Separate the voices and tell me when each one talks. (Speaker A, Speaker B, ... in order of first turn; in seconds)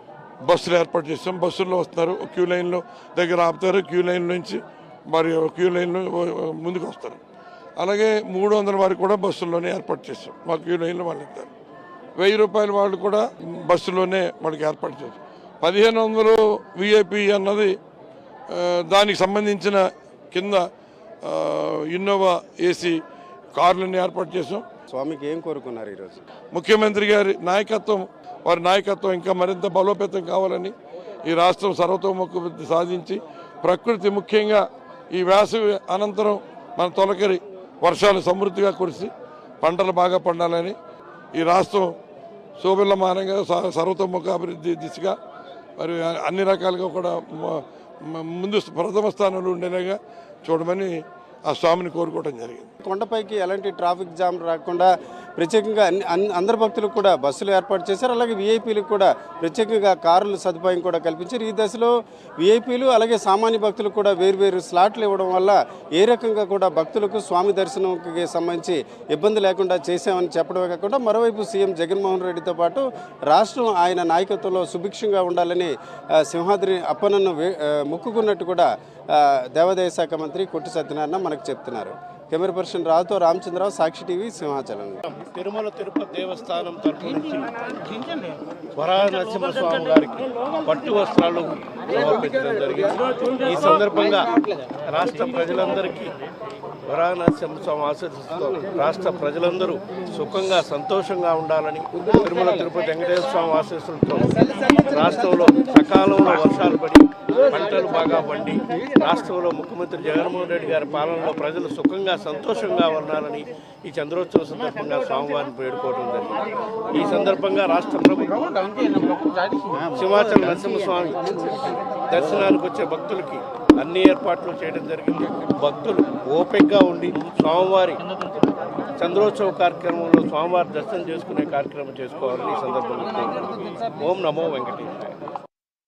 Speaker A: 0.5-7.2, 7.8-11.5, 12.2-17.7, 18.5-20.6, 21.2-23.0, 23.6-24.6, 26.5-30.7, 31.3-39.1, 39.6-40.8, 41.4-41.9, 42.6-45.1, 45.8-50.9, 51.5-52.7
Speaker B: 24.9-26.2, 52.8-85.1, 119.7-120.1
Speaker C: 85.2-87.5, 88.8-94.3, 94.9-96.1, 96.9-116.4, 116.9-119.2, 120.0-121.4, 122.1-128.0, 129.0-135.2